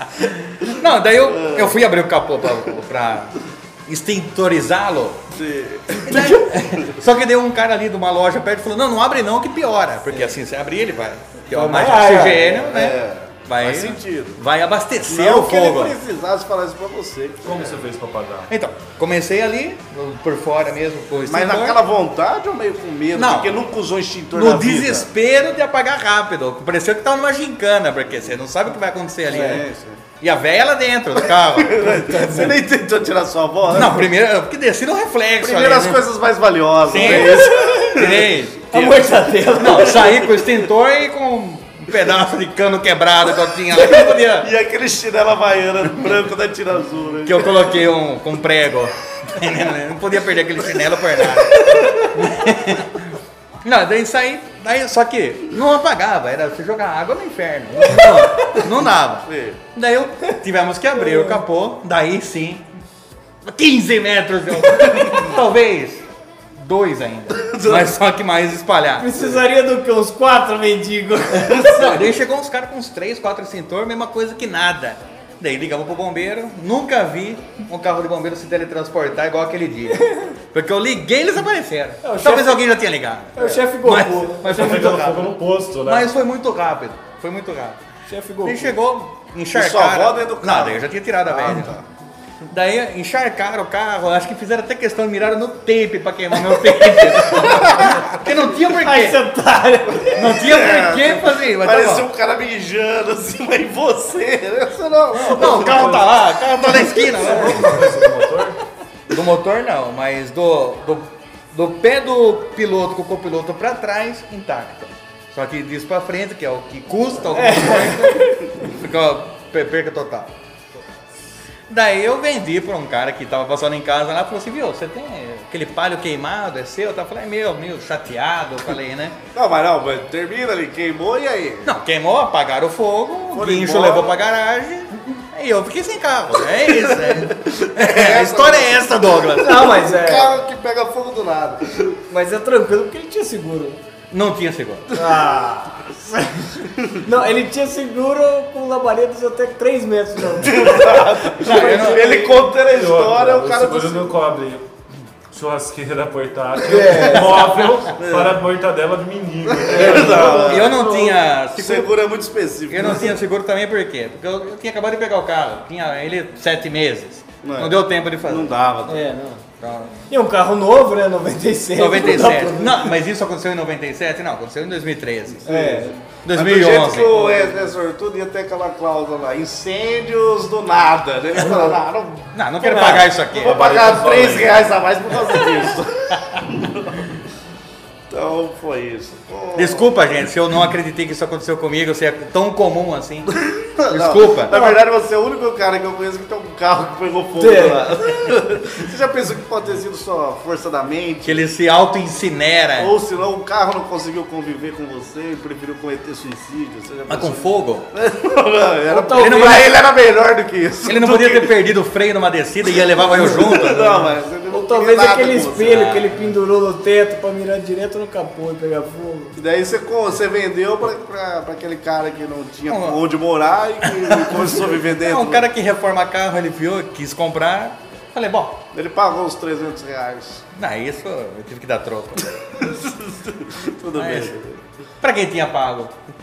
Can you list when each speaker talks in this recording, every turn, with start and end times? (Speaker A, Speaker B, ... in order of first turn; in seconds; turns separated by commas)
Speaker A: 0.2-5.3, Speaker B: 1.3-1.8, Speaker B: 5.3-6.9, Speaker A: 6.0-16.0, Speaker C: 11.5-12.5, Speaker B: 12.2-14.4, Speaker B: 15.1-17.8, Speaker D: 17.4-18.5, Speaker A: 18.5-21.8, Speaker B: 21.2-25.1, Speaker A: 23.1-23.6, Speaker A: 24.3-29.7, Speaker B: 29.3-30.0, Speaker A: 30.2-31.9, Speaker B: 31.4-34.1, Speaker C: 31.8-32.6, Speaker A: 33.7-36.0, Speaker B: 35.4-38.4, Speaker A: 36.9-39.0, Speaker C: 37.0-38.0, Speaker C: 38.7-40.2, Speaker A: 39.5-44.5, Speaker B: 39.6-40.4, Speaker B: 43.7-47.8, Speaker A: 47.2-53.1, Speaker B: 51.4-52.2, Speaker A: 53.6-62.6, Speaker B: 59.2-59.6, Speaker C: 61.0-61.4, Speaker A: 63.4-69.1, Speaker B: 64.9-65.2, Speaker B: 67.3-67.9, Speaker C: 69.0-71.8, Speaker A: 71.5-87.8, Speaker B: 71.7-72.0, Speaker C: 82.0-82.6, Speaker C: 83.3-85.0, Speaker D: 84.5-86.1, Speaker C: 88.1-88.8, Speaker A: 88.4-91.8, Speaker B: 89.5-91.8, Speaker A: 92.5-99.2, Speaker B: 97.3-98.2, Speaker C: 98.7-100.3, Speaker B: 100.1-106.0, Speaker A: 100.1-102.1, Speaker D: 105.2-106.0, Speaker A: 105.3-107.8, Speaker D: 107.1-108.6, Speaker A: 109.1-120.3, Speaker C: 117.3-118.5, Speaker A: 121.7-129.2, Speaker B: 129.3-131.7, Speaker A: 131.7-139.8, Speaker B: 133.3-134.2, Speaker B: 136.6-141.9, Speaker C: 139.4-140.4, Speaker C: 142.1-143.8, Speaker A: 144.1-145.0, Speaker C: 144.9-152.4, Speaker B: 150.3-154.2, Speaker A: 151.4-152.2, Speaker D: 152.6-154.7, Speaker D: 155.3-160.6, Speaker C: 156.6-157.4, Speaker A: 157.1-157.9, Speaker B: 158.0-158.4, Speaker B: 159.5-160.9, Speaker C: 159.7-161.1, Speaker A: 159.9-161.9, Speaker B: 161.6-163.2, Speaker A: 162.7-168.6, Speaker B: 167.4-169.1, Speaker C: 168.9-169.4, Speaker A: 169.6-169.9, Speaker C: 170.1-172.9, Speaker A: 171.8-175.5, Speaker B: 175.4-182.3, Speaker C: 175.5-176.0, Speaker A: 176.2-177.3, Speaker C: 181.4-181.8, Speaker A: 182.3-183.7, Speaker C: 182.6-183.1, Speaker B: 183.3-187.1, Speaker D: 183.4-184.7, Speaker B: 188.1-189.9, Speaker A: 189.6-193.3, Speaker B: 193.4-201.4, Speaker A: 193.9-194.6, Speaker C: 194.5-194.8, Speaker C: 197.4-197.9, Speaker A: 201.2-202.9, Speaker B: 202.8-211.6, Speaker A: 207.1-207.9, Speaker C: 208.9-209.6, Speaker A: 209.2-209.7, Speaker A: 210.8-214.0, Speaker B: 212.7-215.9, Speaker C: 214.5-219.4, Speaker A: 215.6-216.1, Speaker B: 219.4-225.5, Speaker A: 222.7-223.0, Speaker A: 223.8-228.6, Speaker B: 228.7-230.4, Speaker A: 230.6-232.3, Speaker B: 232.4-234.6, Speaker A: 234.0-234.3, Speaker A: 235.0-236.0